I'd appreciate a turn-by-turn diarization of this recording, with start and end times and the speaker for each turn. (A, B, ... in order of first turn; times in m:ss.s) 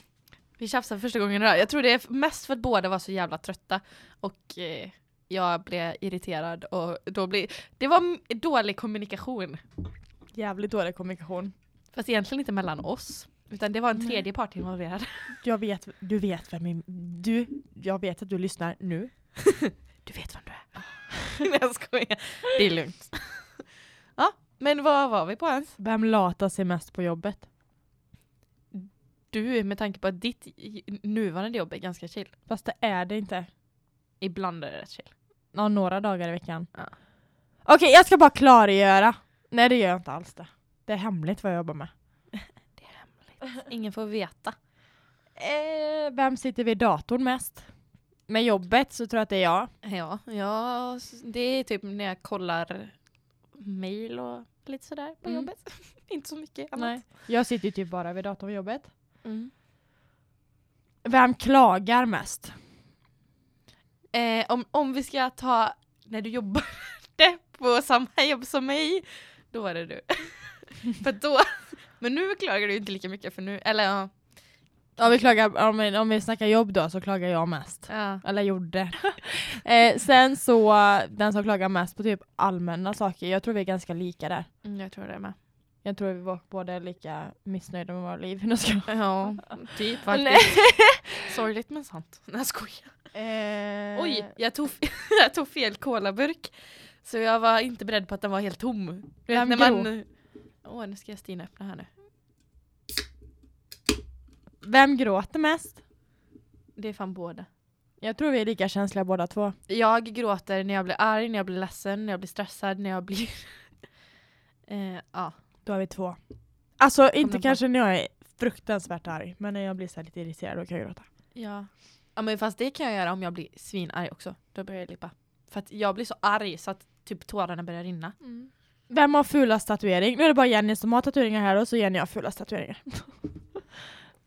0:00.6-0:09.6 A
0:10.3-0:11.5 B
0:11.9-0:15.3 A
0:15.4-0:19.1 B
0:19.4-0:23.6 A
0:24.2-0:25.8 A
0:25.8-0:27.4 B
0:28.7-0:32.3 A
0:32.5-0:33.5 B
0:34.2-0:35.1 A
0:35.5-0:36.7 B
0:37.6-0:41.9 B
0:42.4-0:44.6 A
0:45.4-0:47.7 B
0:48.3-0:49.7 B
0:49.8-0:52.9 A
0:53.5-0:57.0 A
0:55.2-0:55.5 B
0:56.8-0:58.9 B
0:59.2-0:59.5 A
1:01.0-1:02.5 B
1:04.1-1:14.1 A
1:15.0-1:24.5 B
1:17.9-1:18.2 A
1:24.6-1:25.4 A
1:25.8-1:29.5 B
1:28.9-1:33.0 A
1:30.1-1:31.2 B
1:33.1-1:34.3 B
1:33.9-1:40.1 A
1:39.3-1:39.9 B
1:40.6-1:41.9 A
1:44.6-1:45.8 B
1:46.8-1:47.5 A
1:48.0-1:49.6 B
1:49.7-1:53.7 A
1:54.7-1:55.4 A
1:55.6-1:56.2 B
1:56.8-2:01.0 B
1:57.2-1:57.6 A
2:01.3-2:08.2 A
2:08.2-2:13.6 B